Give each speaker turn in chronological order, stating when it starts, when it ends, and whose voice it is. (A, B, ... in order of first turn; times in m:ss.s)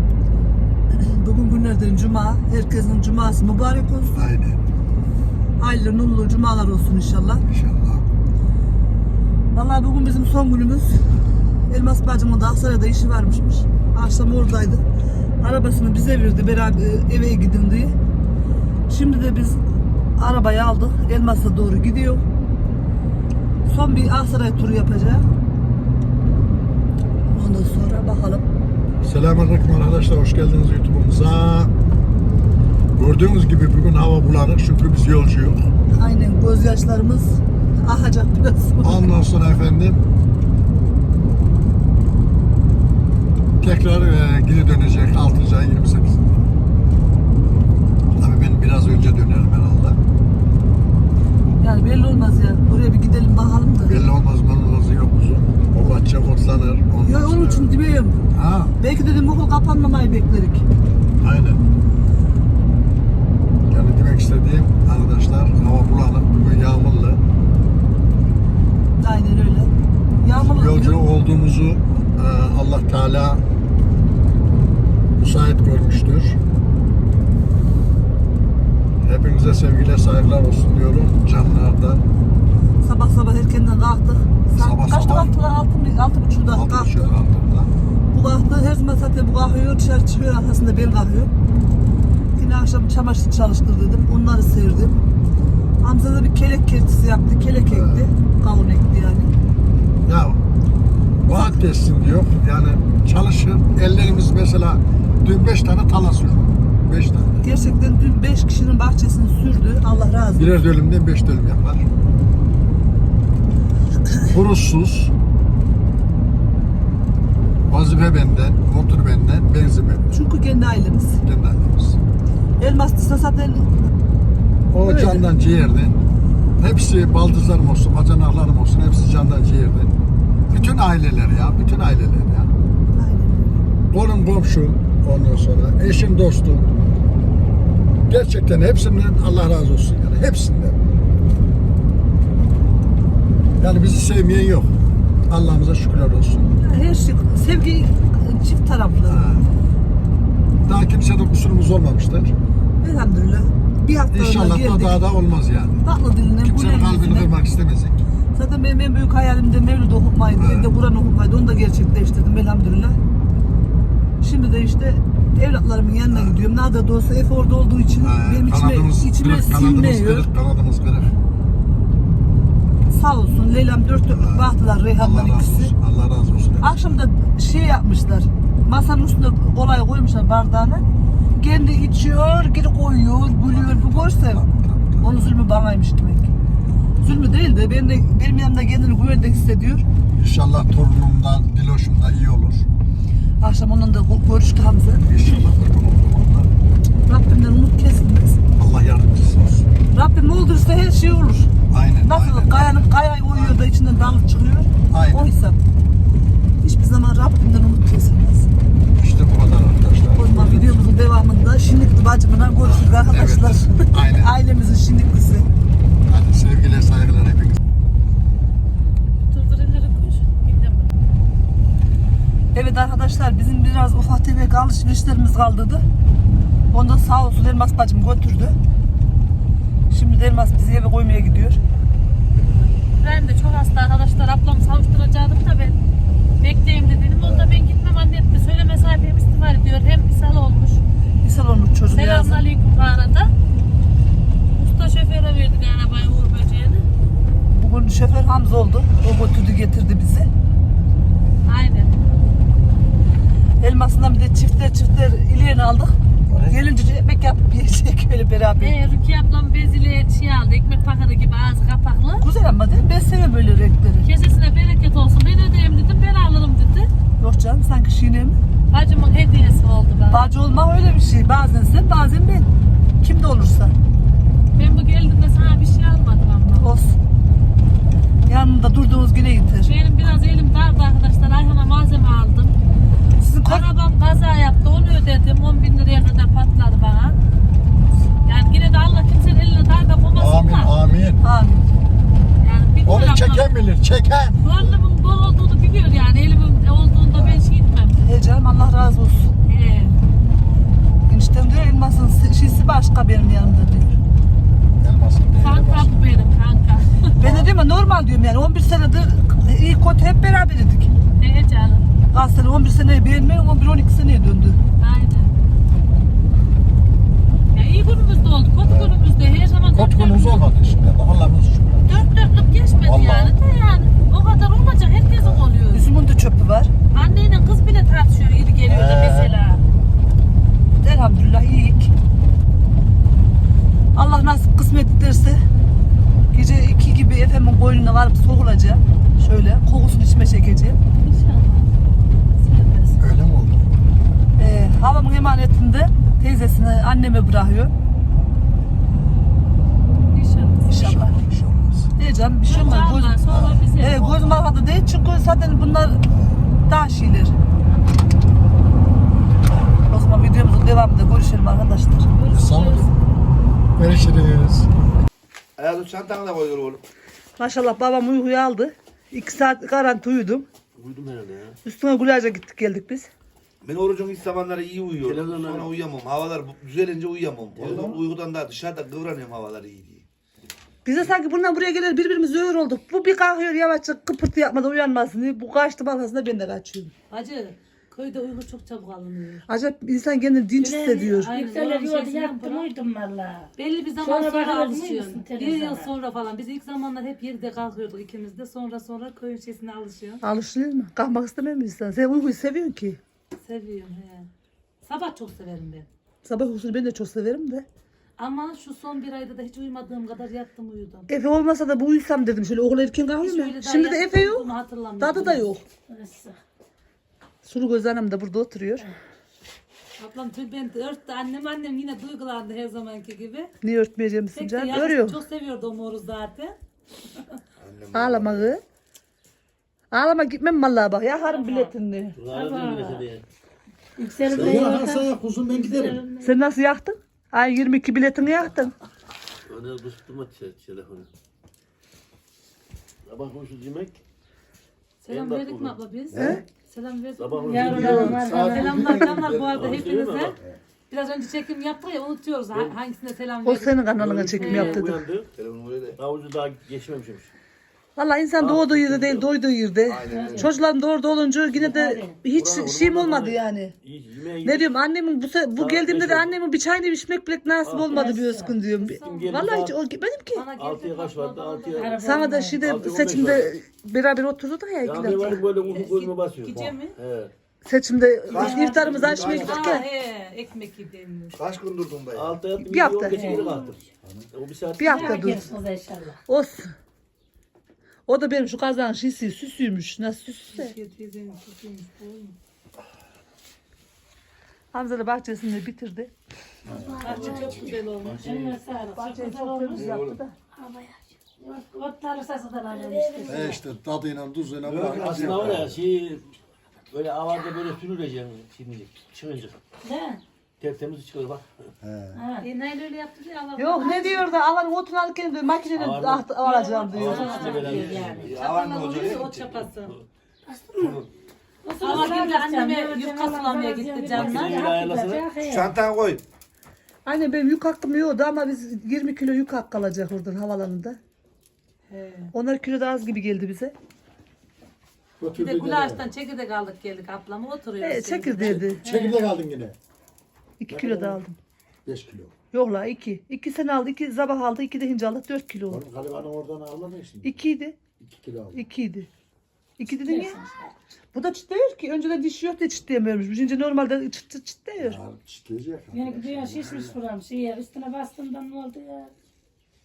0:00.9-0:04.2 A
0:04.1-0:04.6 B
0:05.6-0:07.4 A
0:07.5-0:08.1 B
0:09.5-0:14.8 A
0:15.4-0:18.0 A
0:18.9-0:19.6 A
0:20.2-0:22.2 A
0:23.7-0:25.3 A
0:27.3-0:28.5 A
0:29.0-0:31.7 B
0:33.0-0:35.7 B
0:35.9-0:39.1 A
0:38.8-0:40.0 B
0:43.6-0:46.4 B
0:48.1-0:50.0 B
0:51.6-0:54.0 A
0:53.9-0:57.8 B
0:57.0-0:58.2 A
0:58.3-0:58.8 B
0:58.8-1:00.7 A
1:01.2-1:01.6 B
1:03.7-1:07.2 B
1:09.0-1:11.0 A
1:10.4-1:13.4 B
1:15.2-1:16.4 B
1:19.0-1:22.0 B
1:22.8-1:27.2 A
1:24.6-1:25.4 B
1:26.5-1:27.7 B
1:28.1-1:31.3 A
1:32.4-1:35.0 A
1:35.8-1:39.3 A
1:37.7-1:38.1 B
1:40.0-1:40.4 B
1:41.2-1:47.4 B
1:41.3-1:41.6 A
1:47.4-1:50.5 A
1:50.4-1:51.9 B
1:54.3-1:55.1 B
1:57.7-2:00.2 B
2:00.1-2:01.2 A
2:01.2-2:02.0 B
2:02.6-2:03.7 A
2:04.7-2:06.0 B
2:04.8-2:05.3 A
2:06.6-2:10.0 B
2:10.5-2:12.5 B
2:12.9-2:13.6 A
2:13.9-2:16.7 B
2:18.1-2:20.8 B
2:23.6-2:24.8 B
2:25.3-2:26.6 B
2:26.6-2:29.3 A
2:29.1-2:29.5 B
2:30.6-2:32.4 B
2:32.8-2:35.0 A
2:34.1-2:35.8 B
2:35.8-2:37.3 A
2:36.4-2:38.0 B
2:38.4-2:43.0 A
2:40.4-2:40.7 B
2:44.2-2:50.3 A
2:46.1-2:46.4 B
2:48.0-2:51.2 B
2:52.9-2:55.7 A
2:54.1-2:56.7 B
2:56.6-3:00.8 A
3:01.4-3:04.4 A
3:03.5-3:05.1 B
3:05.0-3:06.3 A
3:07.0-3:09.8 A
3:10.1-3:12.7 B
3:13.4-3:15.1 A
3:15.1-3:16.5 B
3:17.1-3:18.4 A
3:18.6-3:19.7 B
3:19.9-3:21.5 A
3:21.7-3:23.6 B
3:22.0-3:25.6 A
3:24.9-3:25.3 B
3:26.6-3:28.5 A
3:29.0-3:30.8 B
3:30.1-3:35.5 A
3:32.6-3:34.3 B
3:36.1-3:37.6 B
3:39.2-3:41.0 C
3:42.5-3:45.8 A
3:46.7-3:48.6 A
3:49.9-3:51.6 A
3:53.0-3:55.8 C
3:56.4-4:00.8 C
3:57.2-3:57.5 B
4:01.2-4:02.4 A
4:01.9-4:03.3 C
4:04.5-4:06.9 C
4:07.5-4:10.3 A
4:11.5-4:12.0 C
4:13.6-4:16.0 A
4:16.3-4:16.6 B
4:16.5-4:18.8 A
4:18.6-4:22.3 C
4:22.2-4:24.1 A
4:24.0-4:26.9 C
4:27.2-4:28.4 A
4:28.7-4:30.3 C
4:30.1-4:32.5 A
4:33.0-4:33.8 A
4:34.6-4:36.7 C
4:36.5-4:37.0 A
4:38.3-4:39.7 A
4:39.6-4:42.6 C
4:43.2-4:43.7 A
4:43.4-4:47.2 C
4:48.2-4:50.8 C
4:50.2-4:51.2 B
4:51.2-4:51.6 A
4:52.4-4:53.5 C
4:52.8-4:54.8 B
4:54.4-4:58.0 C
4:57.1-4:57.4 B
4:58.0-4:59.3 A
4:59.4-5:00.0 C
5:01.1-5:04.0 A
5:04.8-5:06.0 B
5:05.3-5:07.1 C
5:07.2-5:10.9 A
5:07.2-5:07.5 B
5:11.2-5:11.9 C
5:12.1-5:14.6 A
5:14.8-5:15.3 C
5:17.5-5:20.5 C
5:18.6-5:18.9 B
5:19.7-5:22.1 B
5:21.9-5:25.9 C
5:22.8-5:23.3 B
5:25.2-5:25.4 B
5:25.7-5:26.7 A
5:26.9-5:29.6 C
5:28.6-5:29.4 B
5:30.8-5:31.9 A
5:34.0-5:35.4 A
5:36.3-5:40.8 A
5:41.0-5:41.7 C
5:42.4-5:43.0 C
5:43.0-5:43.8 B
5:44.4-5:47.7 A
5:50.1-5:50.8 C
5:50.7-5:51.2 A
5:50.7-5:51.9 B
5:52.0-5:53.1 A
5:52.4-5:54.5 C
5:52.5-5:53.6 B
5:53.8-5:56.0 A
5:56.1-5:56.4 B
5:56.7-5:57.4 A
5:59.9-6:02.1 A
6:02.2-6:03.0 C
6:02.3-6:02.9 B
6:03.8-6:04.7 B
6:05.6-6:06.8 D
6:07.4-6:10.5 A
6:10.8-6:11.6 E
6:11.6-6:13.1 A
6:13.6-6:20.1 D
6:15.0-6:15.8 E
6:17.6-6:18.0 B
6:20.8-6:26.9 A
6:27.1-6:29.4 C
6:29.5-6:31.3 A
6:30.5-6:35.9 F
6:31.2-6:32.7 C
6:33.6-6:40.2 C
6:40.2-6:43.0 A
6:43.4-6:44.3 C
6:44.8-6:45.9 C
6:46.2-6:47.6 A
6:48.2-6:51.1 C
6:51.1-6:55.6 A
6:53.2-6:55.5 C
6:55.9-6:56.4 F
6:57.4-6:58.9 A
7:00.0-7:03.5 C
7:03.6-7:05.2 A
7:04.3-7:06.6 C
7:07.6-7:08.5 D
7:07.9-7:08.6 A
7:09.9-7:12.2 A
7:11.4-7:11.7 F
7:12.2-7:13.2 E
7:12.3-7:13.1 F
7:14.0-7:16.0 F
7:14.2-7:16.0 B
7:15.8-7:16.2 C
7:16.2-7:18.7 A
7:19.5-7:21.1 E
7:23.0-7:24.0 E
7:25.0-7:30.4 C
7:25.1-7:25.8 E
7:26.1-7:26.4 B
7:26.1-7:26.4 A
7:27.2-7:28.4 E
7:27.5-7:29.2 F
7:27.6-7:29.8 B
7:29.4-7:30.4 E
7:30.9-7:34.9 C
7:33.4-7:35.0 A
7:34.0-7:35.3 E
7:35.3-7:36.0 D
7:36.0-7:37.3 E
7:38.0-7:43.8 A
7:38.4-7:39.3 E
7:39.8-7:40.5 D
7:40.1-7:40.5 F
7:41.6-7:42.2 F
7:42.3-7:44.7 E
7:44.4-7:50.4 A
7:45.6-7:46.4 E
7:47.6-7:48.0 E
7:47.9-7:48.6 F
7:48.7-7:49.5 C
7:49.0-7:49.7 E
7:50.3-7:52.4 C
7:50.6-7:52.0 E
7:51.8-7:52.6 F
7:52.0-7:55.4 A
7:52.6-7:53.5 E
7:54.8-7:57.3 E
7:55.6-7:57.0 C
7:57.6-7:59.8 A
7:58.3-7:59.8 D
7:58.4-7:59.4 F
7:58.9-7:59.2 E
7:59.3-8:01.4 C
8:01.3-8:02.4 D
8:02.1-8:05.0 E
8:02.6-8:03.5 A
8:03.1-8:03.6 F
8:04.0-8:04.3 B
8:04.8-8:05.5 A
8:04.8-8:06.2 F
8:06.3-8:06.7 A
8:08.1-8:10.8 A
8:10.5-8:12.4 C
8:14.7-8:16.1 A
8:16.6-8:17.7 B
8:16.7-8:19.9 F
8:17.0-8:18.5 C
8:18.0-8:18.6 E
8:18.9-8:20.4 A
8:19.7-8:20.2 D
8:20.5-8:23.6 F
8:22.6-8:23.4 C
8:23.3-8:25.7 B
8:24.6-8:25.7 D
8:24.9-8:26.4 E
8:26.9-8:29.6 E
8:29.8-8:30.2 F
8:30.6-8:31.5 E
8:31.8-8:32.2 B
8:32.1-8:32.5 F
8:32.4-8:34.3 C
8:33.6-8:37.5 A
8:35.7-8:38.3 E
8:36.5-8:38.3 F
8:36.6-8:40.0 C
8:37.5-8:39.7 D
8:40.5-8:41.0 F
8:41.6-8:45.8 F
8:41.8-8:44.6 C
8:44.1-8:45.3 E
8:45.4-8:46.2 D
8:47.1-8:51.0 A
8:51.9-8:52.3 C
8:52.3-8:53.7 A
8:55.2-8:56.1 B
8:55.3-8:58.7 C
8:57.8-8:58.8 A
8:58.8-8:59.8 B
8:58.8-8:59.2 F
9:00.6-9:01.4 A
9:00.7-9:01.2 B
9:01.8-9:02.3 B
9:02.5-9:05.8 A
9:05.7-9:07.3 B
9:07.2-9:07.8 A
9:08.0-9:08.6 B
9:08.5-9:09.1 A
9:09.8-9:10.4 A
9:10.0-9:10.8 F
9:11.1-9:15.0 A
9:14.8-9:17.0 B
9:15.9-9:19.1 F